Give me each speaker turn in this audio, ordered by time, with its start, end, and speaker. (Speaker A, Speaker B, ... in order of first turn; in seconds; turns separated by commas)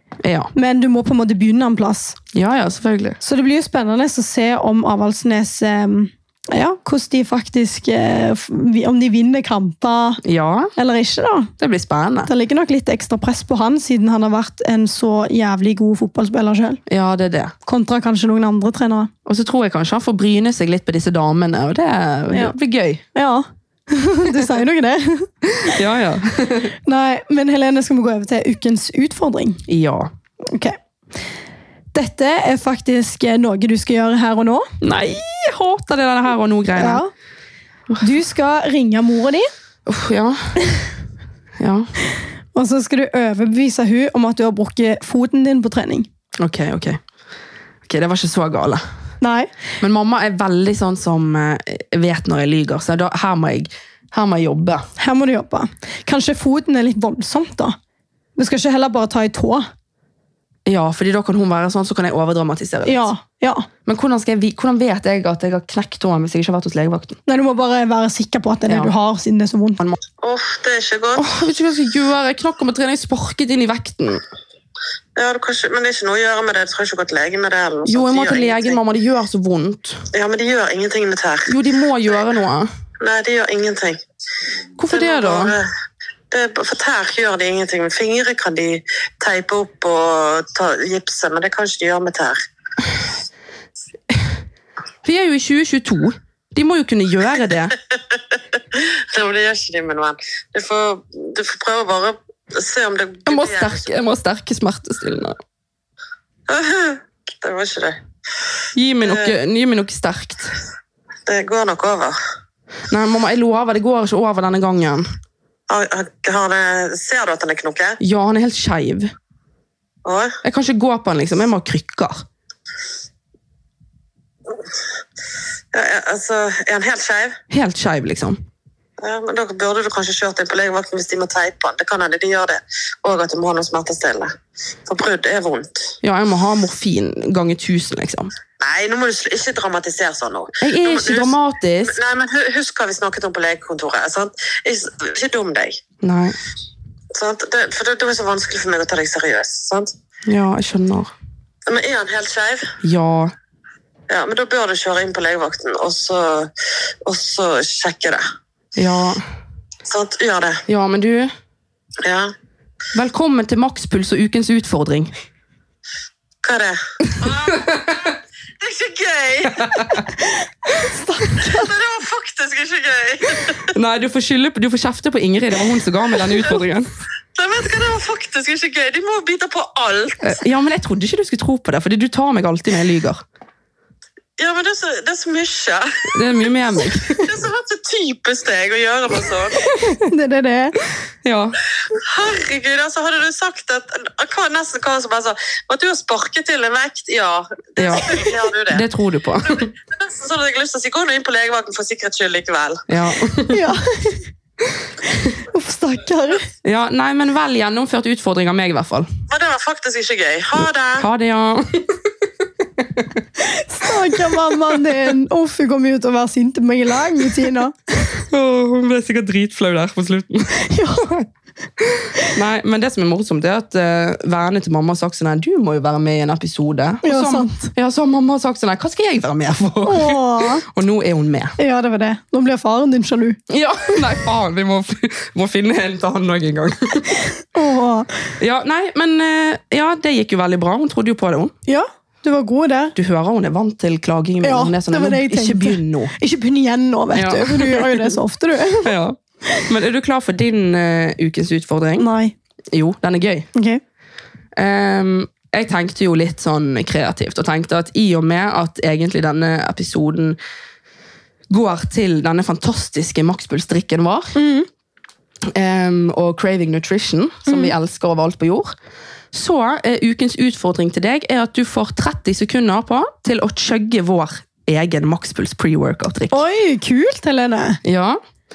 Speaker A: 0.2-0.5, Speaker B: 0.5-2.2, Speaker A: 2.3-3.2, Speaker B: 3.2-10.2, Speaker A: 10.2-10.7, Speaker B: 10.8-11.5, Speaker A: 11.6-12.3, Speaker B: 12.3-16.8, Speaker A: 16.9-17.5, Speaker B: 17.7-19.1, Speaker A: 19.2-23.0, Speaker B: 23.1-25.8, Speaker A: 25.6-26.7, Speaker B: 26.8-29.6, Speaker A: 29.7-30.1, Speaker B: 30.4-30.8, Speaker B: 31.9-34.7, Speaker A: 34.8-37.0, Speaker B: 36.8-37.1, Speaker B: 38.0-39.5, Speaker A: 39.9-40.8, Speaker A: 41.6-41.9, Speaker B: 42.5-46.1, Speaker A: 46.4-47.0, Speaker A: 47.9-48.8, Speaker B: 49.2-49.5, Speaker A: 49.8-54.9, Speaker B: 55.0-57.8, Speaker B: 58.4-59.7, Speaker A: 60.7-63.1, Speaker B: 62.9-63.7, Speaker A: 63.9-67.2, Speaker B: 67.3-69.8, Speaker A: 68.7-68.9, Speaker C: 70.2-71.3, Speaker A: 71.2-74.2, Speaker C: 75.2-78.8, Speaker A: 77.9-80.0, Speaker C: 80.1-81.5, Speaker A: 81.5-82.7, Speaker C: 83.0-84.0, Speaker A: 84.8-85.5, Speaker C: 84.9-85.7, Speaker C: 86.3-92.4, Speaker A: 95.0-97.8, Speaker C: 98.3-103.8, Speaker A: 103.3-105.4, Speaker C: 106.5-108.0, Speaker A: 108.8-110.5, Speaker C: 109.0-109.3, Speaker C: 111.3-112.2, Speaker A: 112.9-115.0, Speaker C: 115.7-118.0, Speaker A: 118.0-119.1, Speaker C: 120.0-120.4, Speaker A: 120.4-122.2, Speaker C: 125.7-127.4, Speaker A: 127.5-128.4, Speaker C: 129.0-134.3, Speaker C: 134.9-135.9, Speaker A: 136.0-138.3, Speaker C: 138.6-141.3, Speaker A: 140.6-142.0, Speaker C: 141.8-145.8, Speaker A: 146.0-146.4, Speaker C: 147.1-149.9, Speaker A: 150.3-151.1, Speaker C: 151.7-152.8, Speaker A: 152.8-153.3, Speaker C: 154.1-156.5, Speaker C: 157.1-158.2, Speaker A: 158.8-159.2, Speaker C: 159.9-160.6, Speaker A: 160.7-161.3, Speaker C: 162.0-162.3, Speaker A: 162.9-165.1, Speaker C: 166.4-169.9, Speaker A: 167.1-168.0, Speaker A: 169.5-170.1, Speaker B: 170.2-171.7, Speaker C: 171.4-173.8, Speaker A: 173.5-176.9, Speaker C: 177.3-180.4, Speaker A: 180.2-183.2, Speaker C: 184.4-186.5, Speaker A: 186.1-187.3, Speaker C: 187.2-189.7, Speaker B: 189.7-190.8, Speaker A: 191.2-191.6, Speaker C: 191.9-198.8, Speaker A: 197.8-199.7, Speaker C: 199.5-202.8, Speaker A: 202.9-203.6, Speaker B: 203.5-204.3, Speaker B: 205.1-206.5, Speaker A: 206.6-209.1, Speaker C: 209.3-211.1, Speaker A: 211.0-212.0, Speaker A: 212.8-213.2, Speaker B: 213.5-217.9, Speaker A: 214.2-215.1, Speaker A: 218.1-221.2, Speaker B: 220.6-221.2, Speaker A: 221.8-231.6, Speaker B: 227.0-227.7, Speaker B: 229.8-230.7, Speaker B: 231.6-233.4, Speaker A: 233.5-237.3, Speaker B: 237.4-238.3, Speaker A: 238.4-241.5, Speaker B: 241.7-242.9, Speaker A: 243.0-246.1, Speaker B: 244.4-248.9, Speaker A: 247.1-248.2, Speaker A: 248.7-252.1, Speaker B: 252.0-252.3, Speaker A: 252.7-253.5, Speaker B: 253.6-253.8, Speaker A: 254.6-260.4, Speaker A: 261.5-264.4, Speaker B: 264.4-264.7, Speaker A: 265.5-268.7, Speaker B: 267.5-267.7, Speaker A: 269.3-276.4, Speaker B: 276.3-277.8, Speaker A: 277.8-278.2